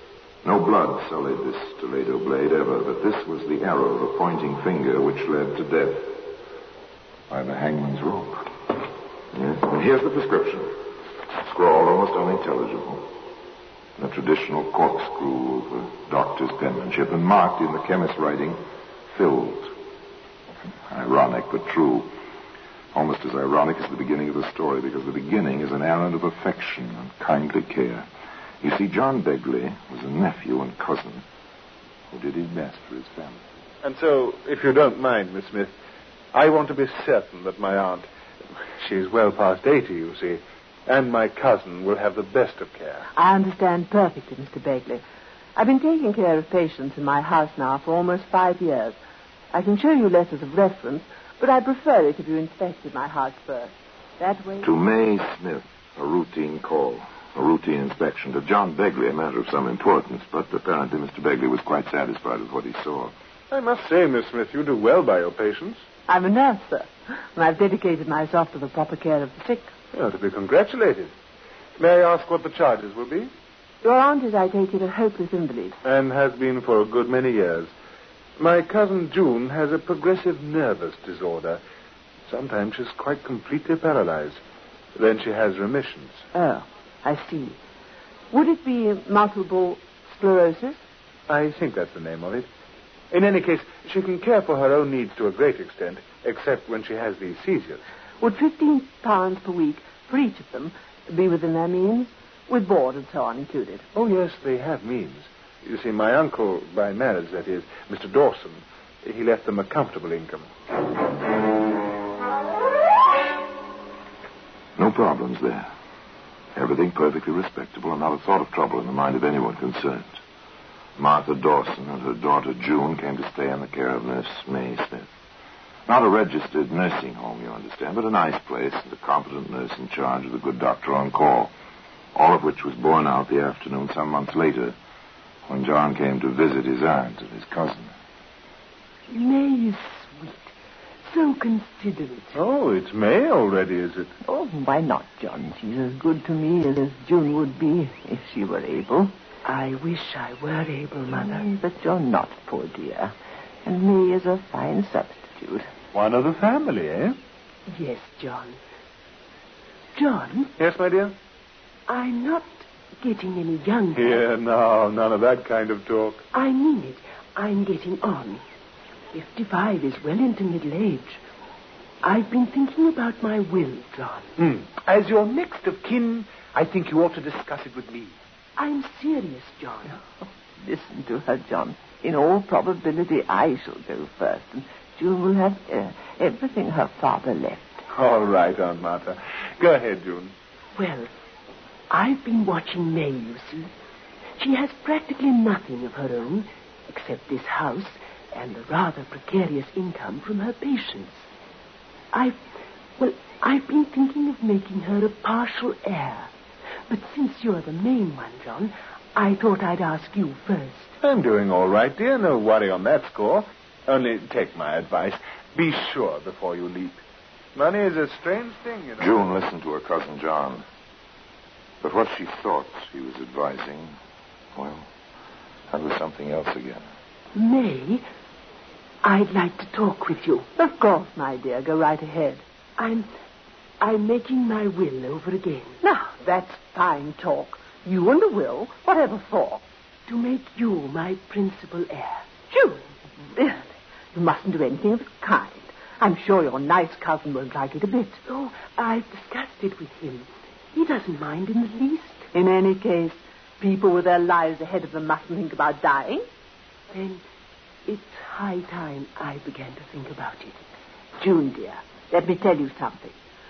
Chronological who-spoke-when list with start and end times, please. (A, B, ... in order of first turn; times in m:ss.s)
0:00.4-0:06.3 A
0:07.3-0:08.8 A
0:09.3-0:10.8 A
0:11.3-0:13.1 A
0:14.0-0:19.7 A
0:20.8-0:22.1 A
0:22.9-0:28.1 A
0:28.6-0:31.2 A
0:32.1-0:33.4 A
0:33.8-0:35.8 B
0:36.3-0:38.1 B
0:38.8-0:43.1 B
0:43.2-0:45.0 C
0:45.6-0:49.0 C
0:49.5-0:54.7 C
0:54.6-1:03.1 A
1:03.5-1:05.8 B
1:06.1-1:09.7 C
1:09.9-1:11.1 B
1:11.8-1:13.3 B
1:13.8-1:15.8 C
1:15.8-1:17.7 B
1:18.4-1:21.6 B
1:22.3-1:24.4 B
1:24.9-1:26.2 B
1:26.3-1:27.6 C
1:28.3-1:30.8 C
1:31.3-1:32.5 B
1:33.1-1:37.8 B
1:38.2-1:43.9 C
1:43.9-1:50.5 B
1:54.8-1:55.7 A
1:56.5-2:00.2 A
2:01.0-2:05.1 A
2:05.9-2:11.5 A
2:12.1-2:14.8 A
2:15.5-2:17.9 A
2:19.1-2:20.5 D
2:21.1-2:22.4 D
2:22.3-2:24.1 B
2:24.2-2:29.1 C
2:29.4-2:31.5 D
2:31.1-2:33.1 C
2:33.6-2:35.7 C
2:35.9-2:37.2 B
2:37.7-2:38.6 D
2:39.9-2:40.5 D
2:40.6-2:41.1 B
2:41.9-2:44.2 D
2:43.9-2:46.3 B
2:46.3-2:48.4 D
2:49.1-2:51.2 D
2:52.0-2:54.3 D
2:54.4-2:58.1 E
2:58.6-3:00.0 D
3:00.6-3:07.8 C
3:07.9-3:10.3 B
3:10.7-3:11.1 D
3:11.9-3:13.7 D
3:14.4-3:21.2 D
3:22.1-3:22.4 D
3:23.0-3:26.3 D
3:26.9-3:30.9 D
3:31.0-3:37.0 B
3:37.5-3:39.2 B
3:39.0-3:40.6 A
3:41.8-3:43.9 A
3:44.5-3:44.9 A
3:45.7-3:46.8 A
3:47.3-3:48.0 D
3:49.0-3:50.5 D
3:50.6-3:52.4 C
3:52.8-3:53.1 D
3:53.8-3:55.8 D
3:55.8-3:59.6 C
4:00.1-4:02.3 D
4:03.3-4:08.2 C
4:08.2-4:12.3 D
4:12.3-4:16.2 C
4:16.9-4:17.2 D
4:17.8-4:20.6 D
4:21.2-4:23.1 C